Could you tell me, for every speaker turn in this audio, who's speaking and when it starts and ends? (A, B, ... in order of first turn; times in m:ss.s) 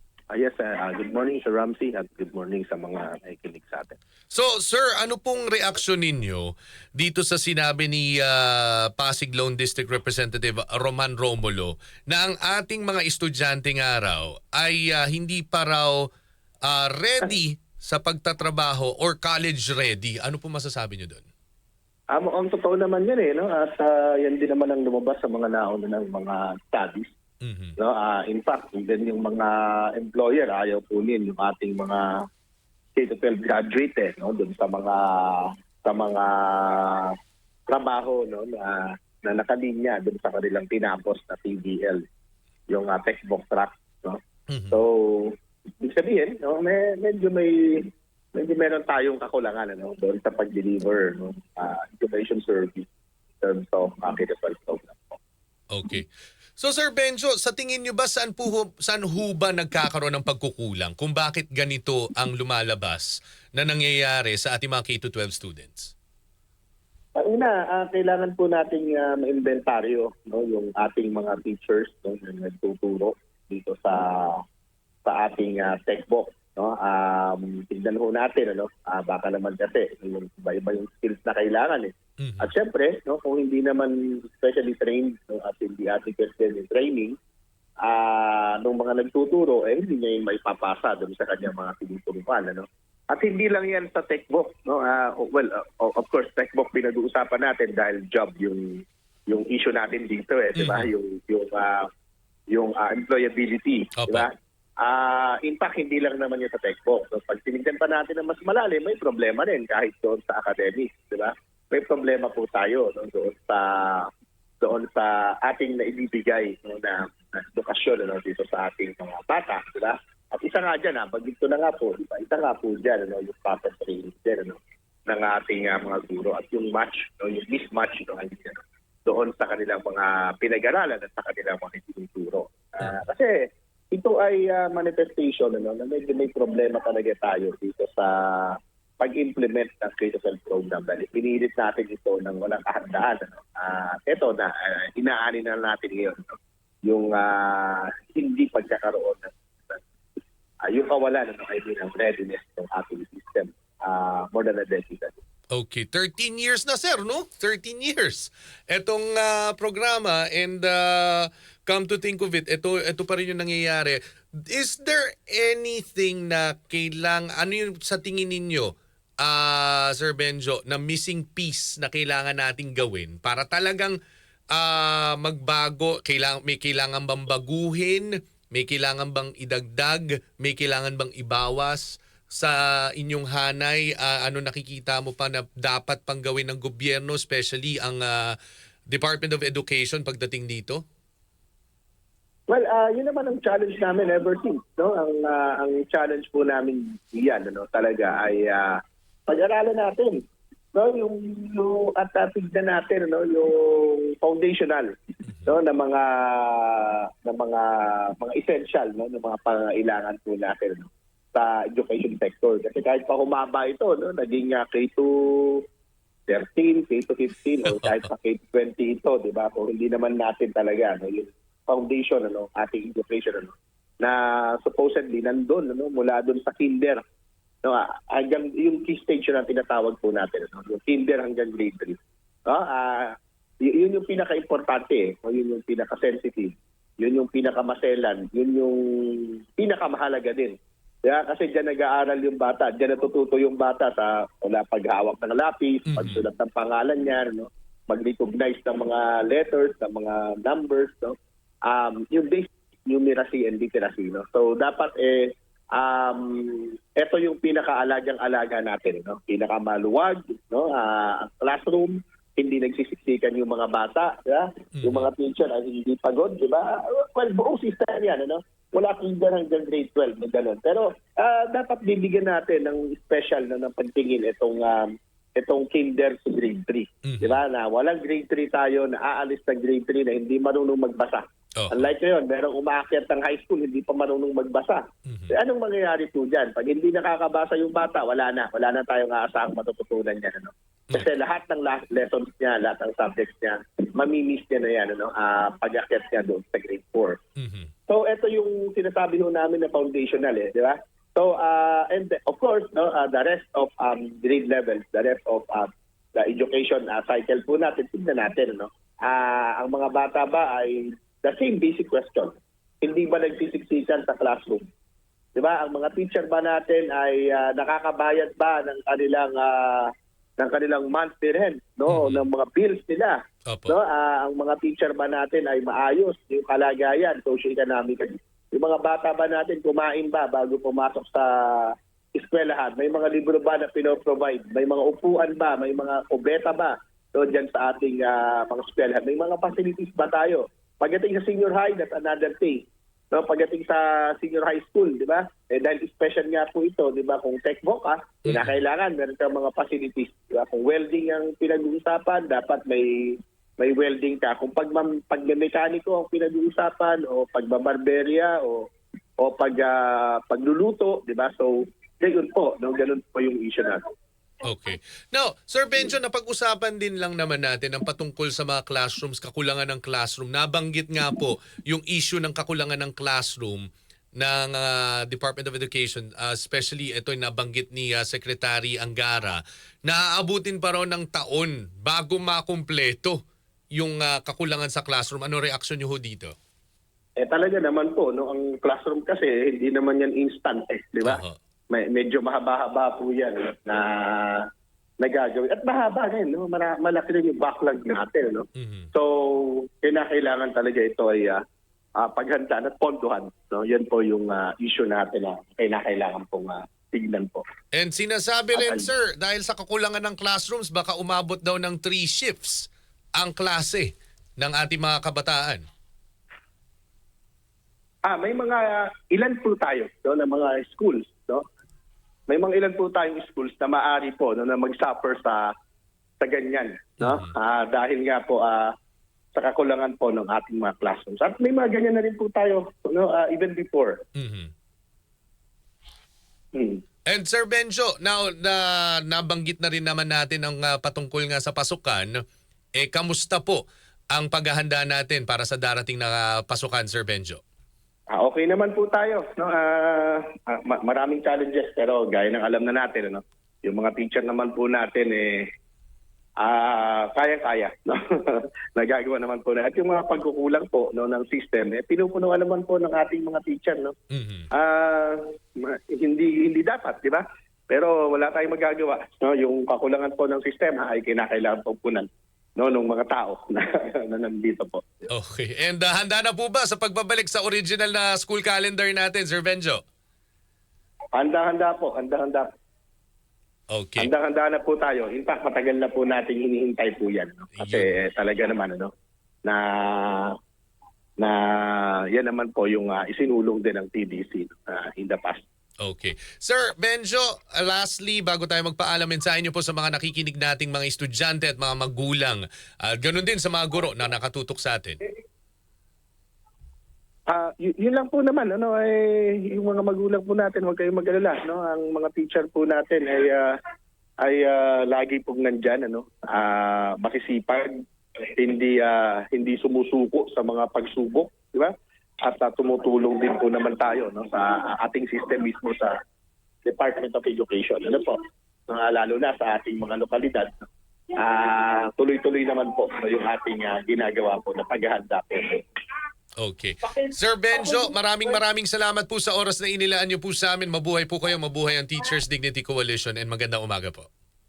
0:00.3-0:04.0 A
0:04.3-0:16.0 B
0:16.7-0:21.2 B
0:22.1-0:27.1 A
0:27.4-0:27.8 B
0:27.8-0:32.2 A
0:33.0-0:37.2 A
0:37.7-0:42.0 A
0:42.7-0:44.2 A
0:44.5-0:44.8 B
0:44.7-0:52.9 A
0:53.4-0:55.2 A
0:55.7-1:05.9 B
1:07.2-1:14.4 A
1:15.0-1:27.2 A
1:22.2-1:22.5 B
1:27.8-1:41.9 A
1:40.6-1:40.9 B
1:42.5-1:54.1 A
1:44.0-1:44.3 B
1:54.6-2:13.4 A
2:13.9-2:29.8 A
2:30.6-2:35.2 A
2:35.5-2:54.0 B
2:54.5-3:08.4 B
3:08.9-3:10.8 B
3:12.5-3:20.2 A
3:20.7-3:24.9 A
3:25.4-3:35.6 A
3:36.3-3:47.0 A
3:47.6-4:57.2 A
4:05.9-4:06.2 B
4:24.8-4:25.1 B
4:37.0-4:37.4 B
4:41.6-4:41.9 B
4:57.4-4:57.7 B
4:57.9-5:14.6 A
5:15.4-5:58.7 A
5:21.9-5:22.2 B
5:23.5-5:23.8 B
5:48.2-5:48.6 B
5:59.2-6:03.8 A
6:04.4-6:13.7 B
6:14.2-6:23.2 B
6:23.8-6:26.3 B
6:27.2-6:34.5 A
6:31.0-6:31.4 B
6:35.0-6:41.4 A
6:38.6-6:38.9 B
6:42.0-6:47.4 A
6:47.7-6:55.6 B
6:48.6-6:48.9 A
6:58.0-7:01.4 A
7:02.3-7:05.5 A
7:06.2-7:08.7 A
7:07.0-7:07.3 B
7:09.3-7:14.0 A
7:14.2-7:14.5 B
7:16.5-7:16.8 A
7:17.1-7:22.2 B
7:22.8-7:23.6 B
7:24.1-7:27.4 B
7:28.1-7:35.4 A
7:36.4-7:44.0 A
7:44.1-7:44.5 B
7:44.5-7:55.1 A
7:55.1-7:59.8 B
8:01.2-8:02.5 A
8:03.7-8:04.1 B
8:04.0-8:08.9 A
8:07.6-8:07.9 B
8:09.4-8:10.4 A
8:11.2-8:15.4 A
8:15.8-8:25.0 B
8:27.3-8:33.5 A
8:34.2-8:45.9 A
8:46.6-8:48.2 A
8:48.7-8:50.7 A
8:51.2-8:55.6 A
8:56.4-9:04.1 B